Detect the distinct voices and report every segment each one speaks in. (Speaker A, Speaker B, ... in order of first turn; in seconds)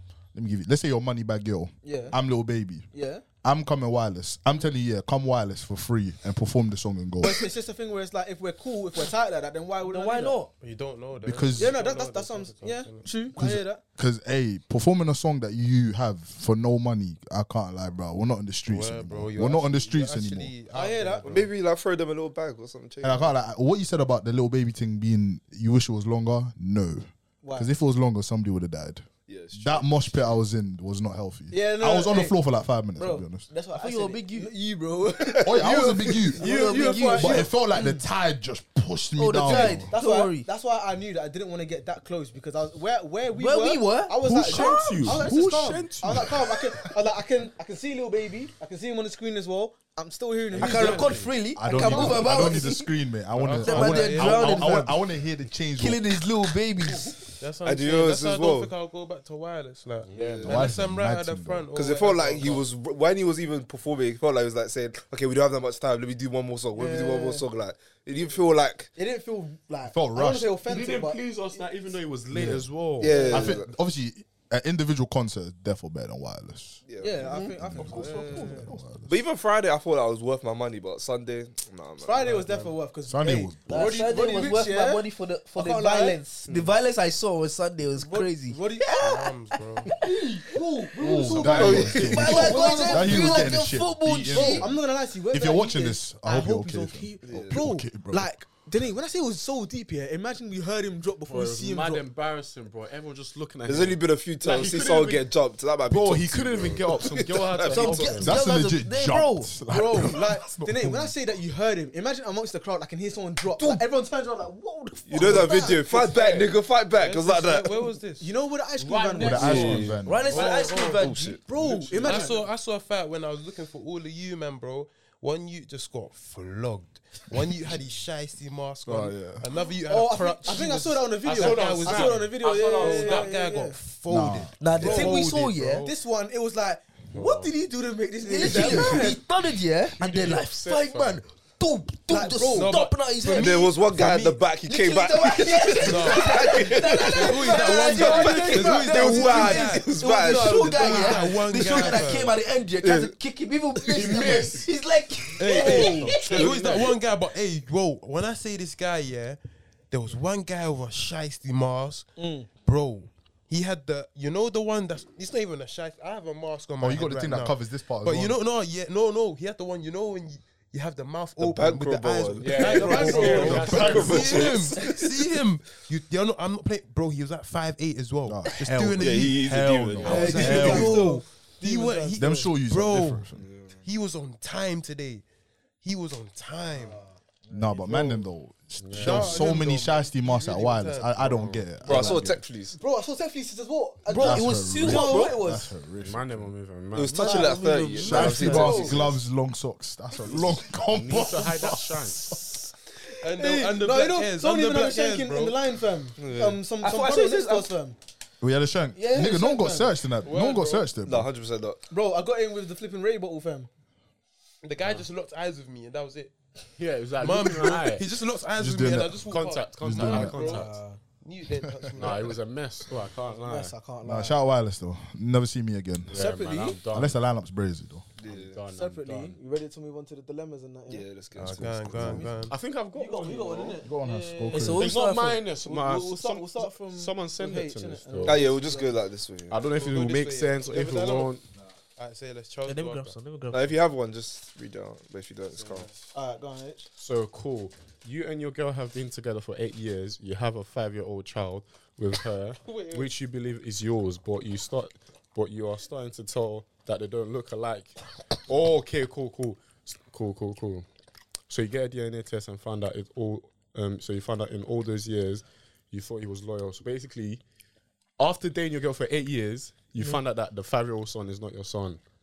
Speaker A: 0.3-2.9, 3.4-7.5, 11.2-11.7, 13.3-20.5, 23.0-33.5, 35.4-36.4, 37.1-39.9, 51.5-56.1, 60.4-61.6, 69.8-70.5, 72.3-72.7, 73.3-76.8, 77.3-79.1, 83.1-83.9, 91.0-94.7, 95.3-98.3, 108.2-111.1, 119.2-120.3, 128.8-129.4, 134.1-134.8, 166.8-168.4, 178.2-181.1, 182.2-183.4, 187.5-192.4, 194.1-196.5, 198.0-201.8, 208.4-211.3, 218.6-219.2, 219.8-220.4, 224.0-226.2, 226.9-228.1, 233.8-234.9
Speaker B: 1.8-2.2, 2.9-3.2, 7.2-10.4, 11.6-13.8, 20.7-21.3, 27.4-27.7, 31.5-32.4, 33.0-38.0, 39.5-52.7, 66.7-67.4, 69.0-71.2, 73.0-73.5, 77.0-78.7, 82.0-86.2, 88.0-89.0, 90.0-93.7, 94.3-102.0, 109.7-116.5, 118.2-119.9, 121.5-122.4, 129.9-133.8, 134.8-135.2, 135.8-139.2, 142.1-142.8, 147.5-148.8, 150.3-151.3, 155.5-156.7, 162.2-162.5, 172.5-174.2, 180.0-182.5, 186.7-188.2, 192.8-195.7, 197.2-197.6, 198.4-199.0, 203.2-208.0, 209.1-209.9, 211.9-213.7, 220.4-221.0, 223.4-224.4, 226.1-226.8, 228.7-231.1, 232.0-234.8, 235.5-239.0, 246.0-246.9
Speaker C: 9.8-10.5, 33.7-34.5, 36.3-37.5, 39.1-40.5, 43.3-45.2, 50.5-52.9, 53.6-55.0, 55.8-57.1, 83.7-89.3, 89.8-90.6, 91.9-94.7, 107.7-109.5, 115.2-115.7, 120.0-121.4, 134.6-135.8, 138.2-143.8, 144.6-156.8, 194.1-195.4, 197.2-199.0, 206.8-207.7, 234.5-235.4, 242.7-243.8
Speaker D: 10.6-13.1, 18.7-21.5, 53.3-54.8, 57.4-62.6, 82.2-82.7, 89.0-89.9, 115.9-118.3, 120.3-121.0, 121.9-135.9, 142.5-144.4, 145.8-152.3, 155.4-159.4, 159.9-162.1, 162.6-183.3, 183.8-185.2, 185.8-187.0, 188.9-191.7, 203.2-205.6, 210.2-210.9, 214.6-216.3, 217.2-222.3, 231.3-232.5, 239.7-241.3, 242.0-243.2, 252.6-253.1
Speaker E: 21.2-23.3, 29.3-30.1, 57.6-58.7, 60.1-60.7, 61.7-68.9, 73.0-73.7, 76.9-77.4, 79.1-82.2, 91.4-92.4, 97.2-97.6, 103.6-108.3, 115.1-117.8, 119.3-120.0, 120.8-121.4, 143.4-150.9, 152.8-153.1, 171.4-175.1, 179.0-180.8, 183.3-183.7, 191.8-192.8, 196.9-199.1, 206.2-206.6, 211.0-211.8, 228.2-228.6, 230.9-232.3, 238.2-239.6, 243.5-245.9
Speaker F: 44.2-46.9, 50.5-51.3, 60.1-60.7, 70.7-73.4, 101.3-105.3, 105.8-108.4, 118.8-120.0, 121.5-122.4, 131.2-133.3, 137.1-137.5, 138.4-139.2, 139.9-141.2, 153.9-154.7, 172.4-174.7, 180.1-180.3, 188.8-189.5, 191.8-192.1, 196.0-197.4, 200.2-202.4, 216.8-218.1, 219.3-220.8, 221.9-223.7, 226.1-227.2, 228.2-229.4, 232.2-233.8, 234.8-238.5, 239.5-241.4, 247.0-260.9, 261.5-267.4, 268.2-272.0